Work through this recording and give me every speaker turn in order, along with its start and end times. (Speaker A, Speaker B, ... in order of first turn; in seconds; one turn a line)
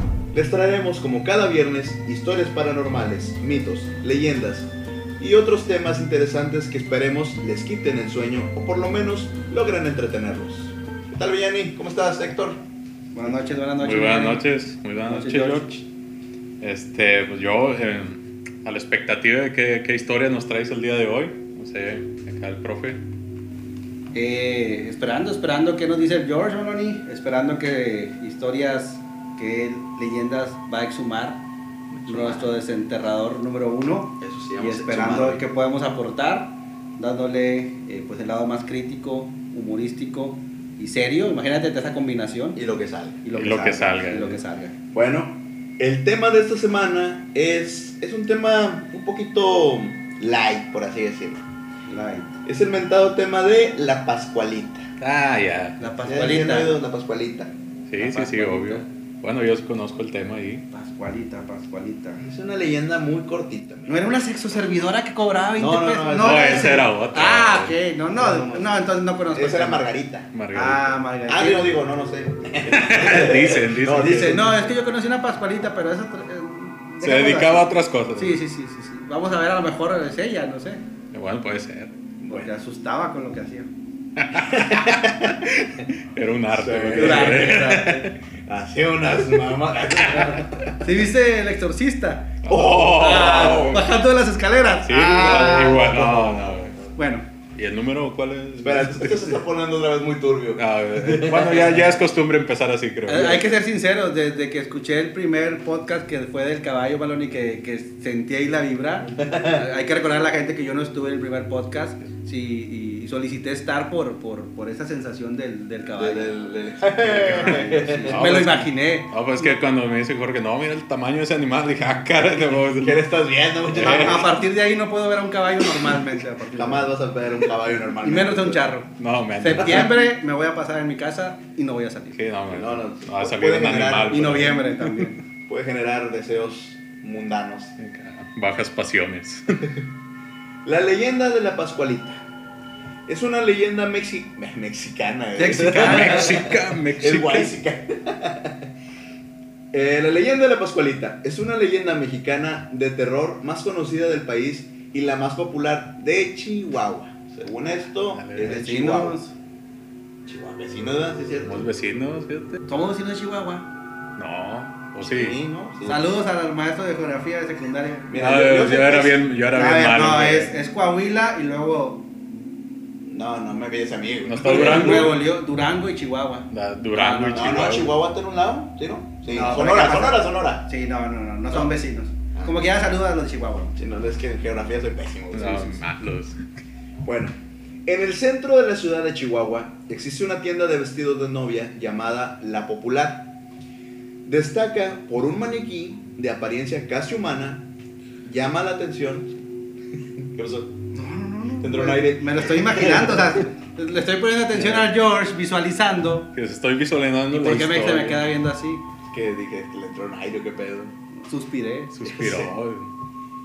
Speaker A: 0.3-12.6
Speaker B: 13.1-14.5
Speaker C: 13.8-15.8
Speaker B: 15.1-15.8
Speaker C: 16.6-23.0
Speaker B: 24.1-31.4
Speaker A: 31.9-32.5
Speaker B: 32.1-42.6
Speaker A: 34.2-35.4
Speaker A: 42.5-43.2
Speaker B: 43.2-44.7
Speaker C: 43.4-44.4
Speaker A: 44.9-51.4
Speaker B: 51.9-52.4
Speaker A: 52.5-54.9
Speaker C: 55.0-55.9
Speaker B: 55.8-56.8
Speaker A: 56.0-57.5
Speaker C: 57.9-60.6
Speaker B: 58.0-58.9
Speaker B: 60.7-62.2
Speaker A: 62.2-64.0
Speaker B: 63.9-69.9
Speaker A: 65.6-66.8
Speaker C: 66.2-67.8
Speaker A: 68.1-68.7
Speaker A: 69.3-70.3
Speaker C: 70.3-71.0
Speaker B: 70.5-71.7
Speaker A: 71.3-74.7
Speaker C: 72.7-74.4
Speaker B: 74.0-80.8
Speaker C: 77.0-78.4
Speaker C: 81.1-81.9
Speaker A: 82.2-82.5
Speaker B: 82.3-83.7
Speaker C: 84.2-88.1
Speaker A: 84.3-85.9
Speaker A: 86.5-90.8
Speaker B: 87.0-87.6
Speaker C: 90.1-90.4
Speaker B: 90.8-92.4
Speaker C: 92.4-93.8
Speaker A: 92.5-93.9
Speaker B: 93.0-96.0
Speaker C: 94.8-96.8
Speaker A: 95.1-96.9
Speaker B: 97.0-97.3
Speaker C: 97.5-99.4
Speaker A: 98.6-101.9
Speaker C: 100.6-103.4
Speaker B: 103.1-116.3
Speaker A: 109.2-109.7
Speaker A: 116.0-118.2
Speaker B: 117.0-119.6
Speaker C: 118.1-123.0
Speaker A: 122.8-124.4
Speaker C: 123.7-124.4
Speaker B: 123.8-126.9
Speaker A: 126.6-128.7
Speaker B: 128.0-132.2
Speaker C: 129.0-130.0
Speaker A: 129.6-129.9
Speaker C: 132.2-135.0
Speaker A: 132.5-134.4
Speaker B: 134.1-135.2
Speaker A: 135.5-137.7
Speaker C: 137.8-139.7
Speaker A: 140.7-142.2
Speaker A: 143.1-148.7
Speaker B: 145.4-146.4
Speaker C: 145.4-147.5
Speaker A: 149.7-159.2
Speaker C: 158.1-158.6
Speaker B: 158.4-159.3
Speaker A: 160.3-161.7
Speaker C: 161.4-162.6
Speaker B: 162.7-163.7
Speaker C: 164.2-165.4
Speaker A: 165.0-166.1
Speaker B: 165.8-168.1
Speaker A: 168.1-169.2
Speaker C: 168.2-170.5
Speaker B: 169.5-172.1
Speaker A: 173.1-175.2
Speaker C: 174.3-175.2
Speaker B: 174.4-177.7
Speaker C: 176.5-177.9
Speaker A: 177.3-180.7
Speaker B: 179.3-183.8
Speaker A: 183.8-185.8
Speaker C: 185.3-186.4
Speaker A: 187.0-193.4
Speaker A: 194.3-197.7
Speaker A: 198.2-199.3
Speaker A: 200.2-200.7
Speaker B: 200.9-206.3
Speaker A: 201.6-203.4
Speaker C: 206.3-208.2
Speaker B: 207.3-208.8
Speaker A: 209.0-210.9
Speaker B: 211.2-212.0
Speaker C: 211.9-212.9
Speaker A: 212.1-212.5